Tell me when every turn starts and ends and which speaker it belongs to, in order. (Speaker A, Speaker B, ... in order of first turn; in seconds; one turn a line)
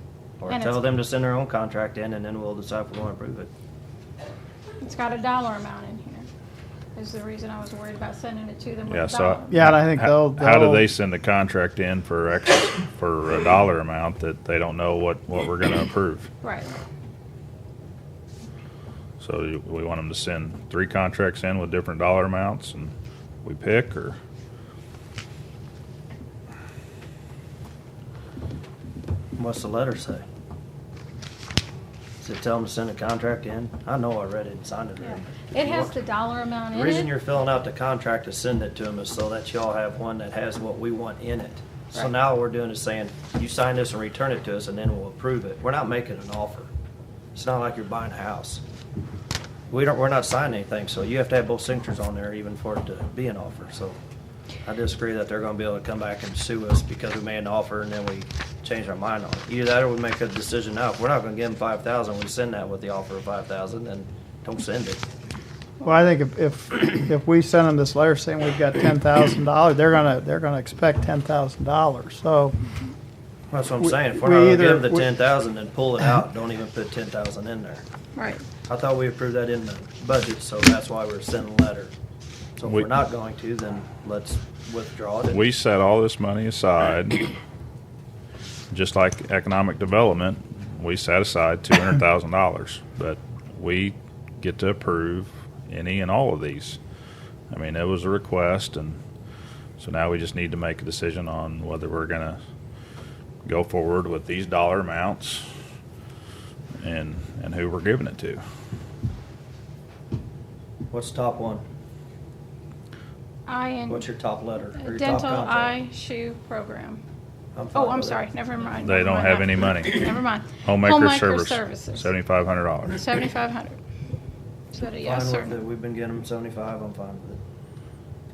Speaker A: 0.4-3.5
Speaker B: 0.5-0.9
Speaker B: 4.8-6.3
Speaker B: 7.0-9.7
Speaker C: 8.9-16.3
Speaker D: 9.5-10.9
Speaker B: 16.4-16.7
Speaker C: 19.2-24.2
Speaker A: 29.4-30.2
Speaker A: 32.2-36.0
Speaker B: 35.0-37.2
Speaker A: 36.7-46.7
Speaker A: 47.3-48.6
Speaker A: 49.7-54.0
Speaker A: 54.6-65.0
Speaker D: 65.8-72.6
Speaker A: 73.5-77.8
Speaker D: 73.8-75.1
Speaker B: 78.2-78.5
Speaker A: 78.7-81.9
Speaker A: 82.6-85.5
Speaker C: 85.3-87.3
Speaker C: 88.7-96.8
Speaker C: 97.5-99.0
Speaker C: 99.8-102.4
Speaker C: 103.4-105.5
Speaker C: 106.8-108.4
Speaker A: 110.9-111.6
Speaker B: 113.5-114.1
Speaker A: 113.9-115.8
Speaker B: 114.8-117.0
Speaker A: 117.5-118.2
Speaker B: 117.7-122.1
Speaker C: 118.8-123.0
Speaker B: 122.9-123.8
Speaker B: 124.7-125.6
Speaker A: 125.0-127.4